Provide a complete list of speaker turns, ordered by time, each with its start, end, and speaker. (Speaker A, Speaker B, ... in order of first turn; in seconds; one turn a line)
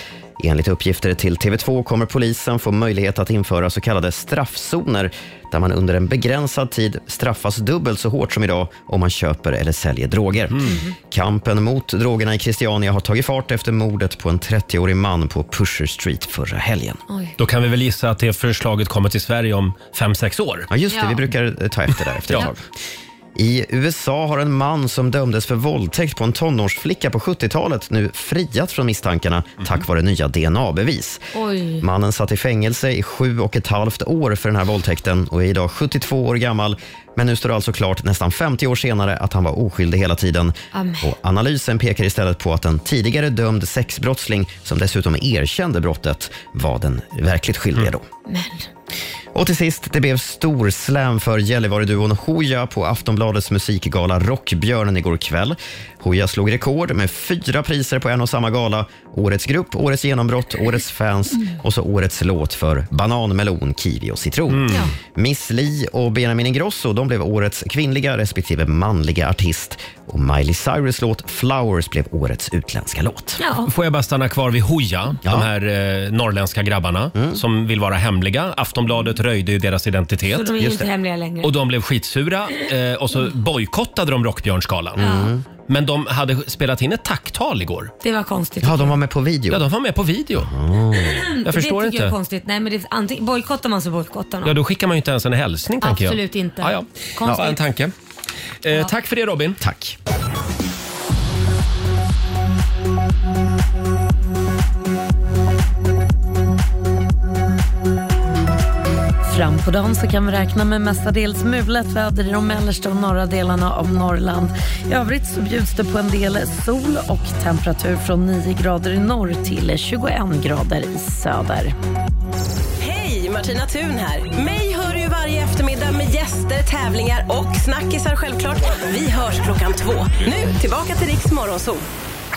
Speaker A: 0.4-17.0
Speaker B: 10.5-10.8
Speaker C: 10.6-10.9
Speaker C: 17.1-17.4
Speaker B: 17.4-20.7
Speaker A: 20.7-22.6
Speaker C: 20.9-21.3
Speaker A: 23.4-31.2
Speaker C: 31.3-31.8
Speaker A: 31.8-48.0
Speaker C: 40.7-41.1
Speaker C: 48.3-48.7
Speaker A: 49.3-73.4
Speaker B: 64.5-64.8
Speaker C: 73.4-73.7
Speaker B: 73.7-80.5
Speaker A: 77.1-77.4
Speaker C: 80.3-81.5
Speaker A: 80.6-80.9
Speaker B: 81.4-85.0
Speaker A: 85.0-85.4
Speaker C: 85.0-85.3
Speaker B: 85.7-87.9
Speaker C: 88.0-89.0
Speaker A: 88.6-89.6
Speaker B: 89.5-90.5
Speaker A: 90.3-91.2
Speaker C: 91.0-94.5
Speaker B: 91.5-92.1
Speaker B: 94.4-97.9
Speaker C: 95.8-97.6
Speaker B: 98.6-99.6
Speaker A: 99.6-100.0
Speaker D: 109.3-121.7
Speaker E: 122.8-131.8